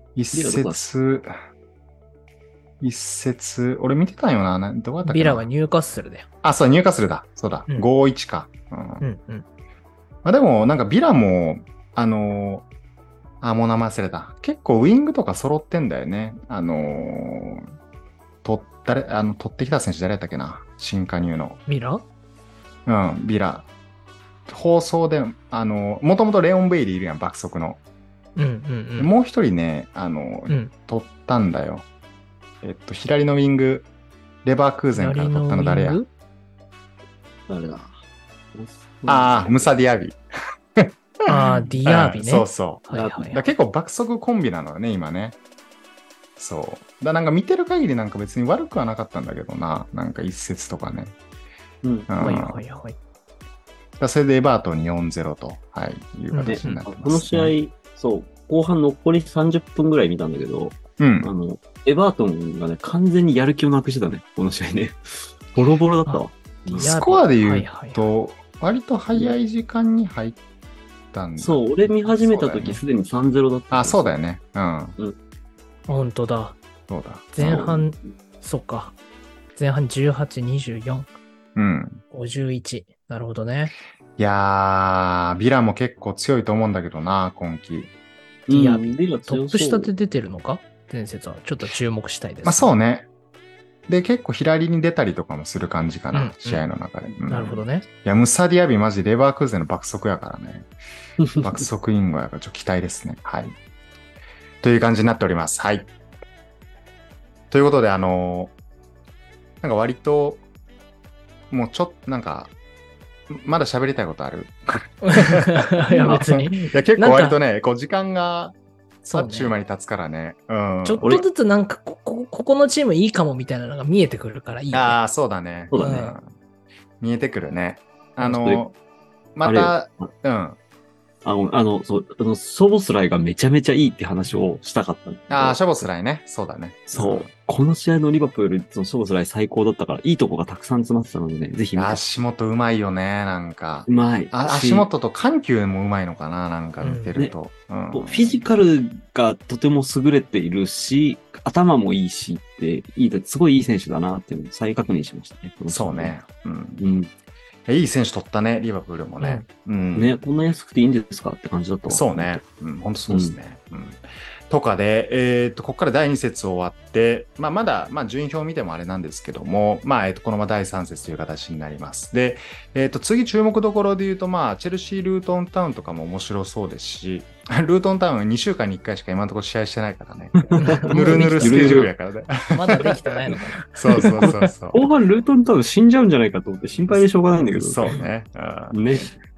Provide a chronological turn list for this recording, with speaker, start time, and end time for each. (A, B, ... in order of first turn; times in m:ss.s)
0:00.2-0:01.3 A
0:00.3-0:00.8 B
0:02.8-0:05.5 A
0:05.0-0:06.2 C
0:06.4-0:09.0 A
0:09.0-0:09.4 C
0:10.2-0:12.6 A
0:13.4-0:17.7 A
0:18.4-0:21.6 A
0:21.7-0:22.0 C
0:22.8-0:23.6 A
0:24.5-0:27.8 A
0:28.4-0:29.1 C
0:29.0-0:31.8 A
0:32.6-0:33.8 A
0:34.4-0:36.0 A
0:34.9-0:36.1 C
0:37.5-0:37.9 B
0:38.5-0:39.7 B
0:39.1-0:40.2 A
0:40.8-0:45.4 A
0:41.2-0:43.4 C
0:42.9-0:43.2 B
0:46.4-0:51.1 A
0:51.8-0:52.1 B
0:52.1-0:52.6 A
0:52.2-0:53.0 C
0:54.0-0:57.5 A
0:56.3-0:56.8 C
0:56.4-1:06.9 B
1:01.0-1:01.3 A
1:06.1-1:08.0 C
1:06.7-1:10.4 A
1:11.1-1:12.8 A
1:11.4-1:14.1 B
1:13.7-1:15.0 A
1:15.9-1:16.6 C
1:16.9-1:17.6 A
1:17.3-1:19.0 C
1:17.4-1:17.9 B
1:19.6-1:21.1 C
1:21.5-1:22.0 A
1:22.1-1:23.7 C
1:24.2-1:27.9 A
1:28.5-1:29.9 B
1:28.5-1:32.7 C
1:32.4-1:33.1 A
1:33.9-1:40.7 A
1:36.1-1:36.6 C
1:37.3-1:37.8 C
1:41.2-1:41.5 B
1:41.4-1:43.5 A
1:44.6-1:45.9 A
1:47.5-1:48.5 A
1:49.6-1:50.4 A
1:51.5-1:52.5 A
1:53.3-2:01.1 A
1:55.0-1:57.4 C
1:59.1-1:59.5 C
2:00.8-2:05.0 C
2:01.0-2:01.3 B
2:04.7-2:06.3 A
2:05.7-2:06.0 B
2:05.7-2:06.2 C
2:07.0-2:08.7 A
2:08.2-2:08.6 B
2:09.4-2:10.6 A
2:09.4-2:10.1 B
2:11.2-2:15.7 B
2:15.3-2:17.3 A
2:16.9-2:22.0 B
2:21.7-2:28.4 A
2:23.9-2:24.9 B
2:26.8-2:27.1 C
2:27.9-2:36.1 B
2:35.7-2:36.8 A
2:36.8-2:37.1 B
2:37.7-2:40.2 A
2:39.2-2:39.4 C
2:39.9-2:42.4 B
2:41.9-3:03.2 A
2:43.1-2:43.4 B
3:00.3-3:01.9 B
3:00.6-3:01.9 C
3:02.5-3:04.5 C
3:03.7-3:04.9 A
3:04.2-3:08.0 B
3:07.5-3:08.8 A
3:08.7-3:09.1 B